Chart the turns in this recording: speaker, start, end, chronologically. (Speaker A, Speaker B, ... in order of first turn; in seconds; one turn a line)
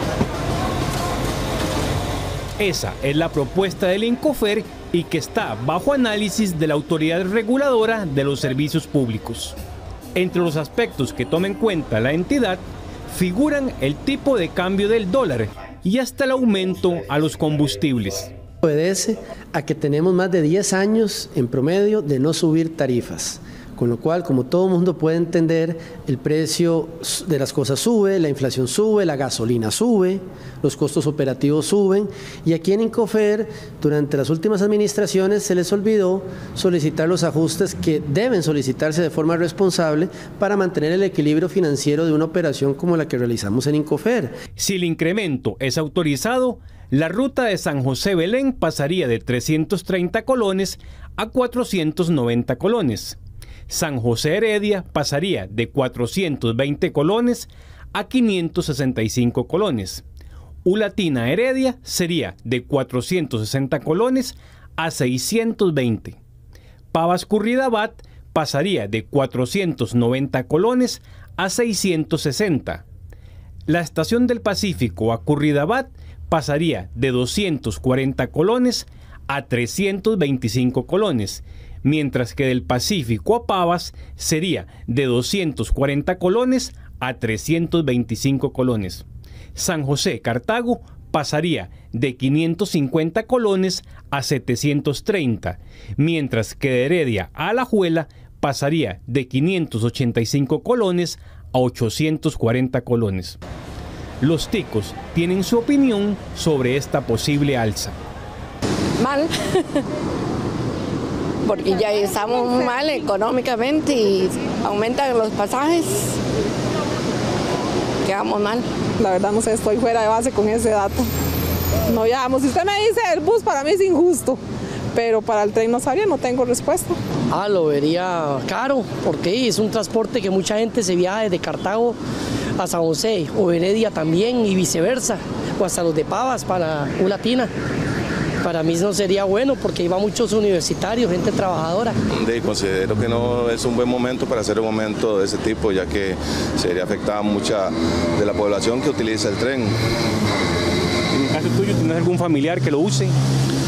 Speaker A: 2.6-9.6
Speaker A: 10.1-18.3
Speaker B: 18.6-44.4
Speaker A: 44.6-60.0
Speaker A: 60.6-66.2
Speaker A: 66.9-72.8
Speaker A: 73.7-103.4
Speaker A: 104.2-108.0
Speaker C: 109.0-109.8
Speaker C: 111.4-116.2
Speaker C: 118.0-118.7
Speaker D: 119.0-121.1
Speaker D: 121.9-124.4
Speaker D: 124.9-127.0
Speaker E: 127.3-132.0
Speaker E: 132.6-137.5
Speaker E: 138.4-141.9
Speaker F: 142.1-149.8
Speaker A: 151.1-153.1